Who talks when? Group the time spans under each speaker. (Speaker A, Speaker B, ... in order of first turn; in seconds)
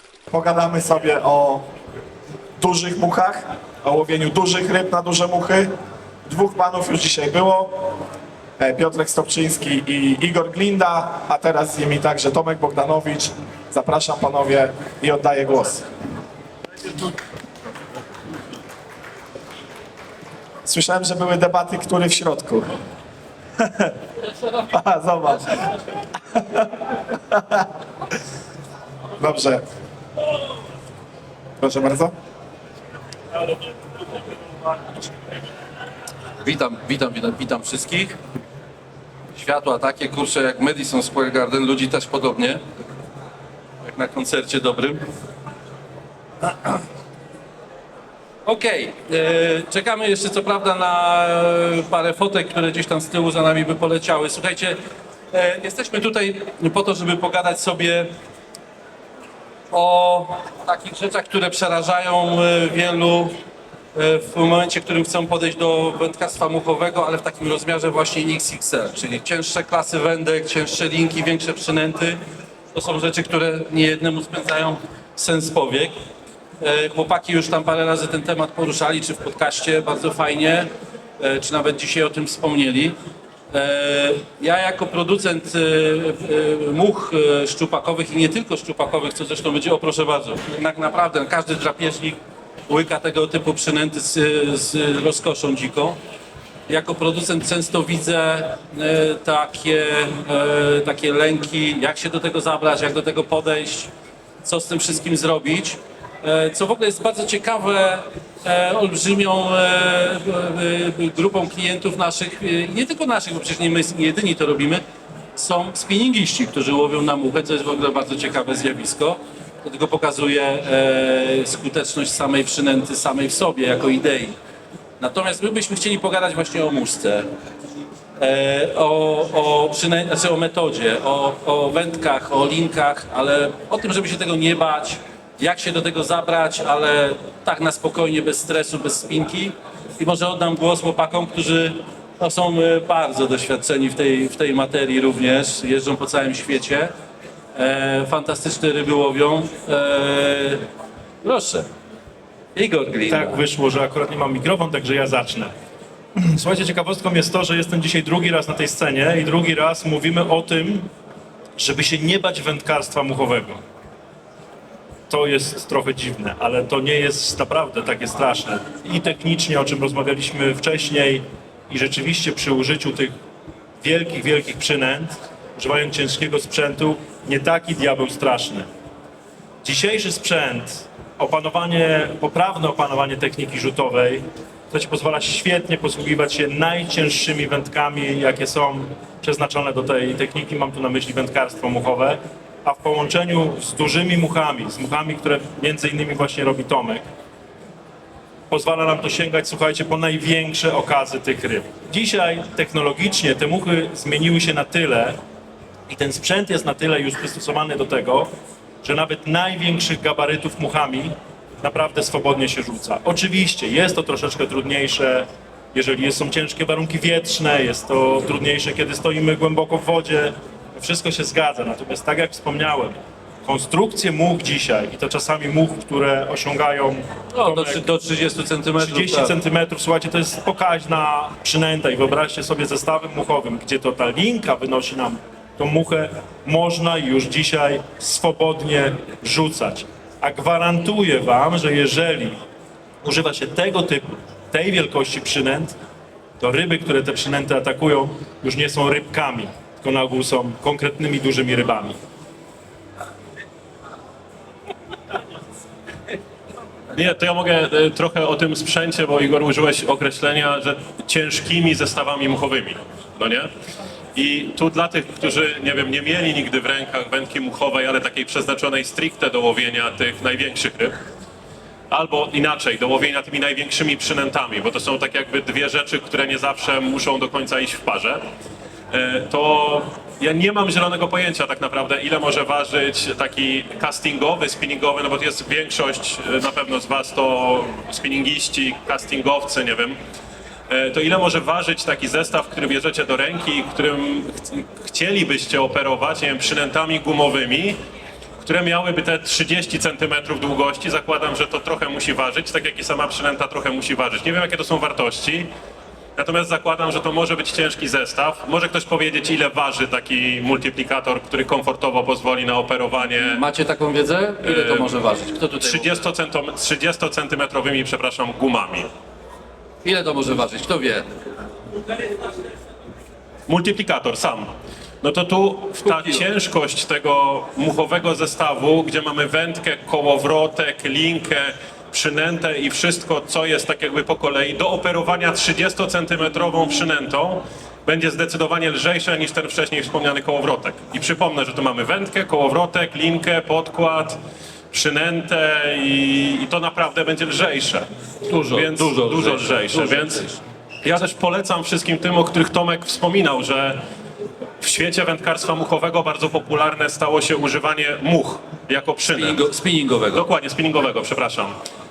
Speaker A: 0.3-1.6, 2.6-5.7, 6.2-7.9, 8.6-15.9, 20.6-22.8, 23.6-23.9, 24.7-25.8, 26.4-27.6, 29.2-29.6, 31.6-32.1
Speaker B: 36.4-38.2, 39.3-42.6, 43.8-45.0, 46.4-46.8, 48.5-54.8, 55.3-58.1, 59.7-63.3, 64.0-72.2, 72.7-75.9, 76.6-82.9, 83.5-92.2, 92.7-96.0, 96.7-103.9, 104.4-114.8, 115.3-124.3, 125.0-127.3, 128.2-146.9, 147.5-150.6, 151.2-151.7, 152.6-153.4, 227.3-229.3, 313.2-316.0, 319.8-321.1, 325.8-326.2, 348.2-350.4, 359.1-360.3
Speaker C: 153.1-155.5, 156.2-160.9, 161.6-163.6, 165.1-173.1, 173.8-178.7, 179.6-197.1, 198.5-205.2, 205.9-208.3, 208.8-227.8, 228.8-242.4, 243.0-245.8, 246.4-252.0
Speaker D: 256.9-263.5, 264.1-270.9, 271.9-278.2, 278.9-290.0, 290.7-297.8, 298.4-305.5, 306.1-313.4, 314.4-315.0, 315.6-318.9, 323.5-324.5, 325.0-344.2, 344.7-347.9, 348.5-350.3, 350.8-353.8, 354.6-359.4, 360.1-361.5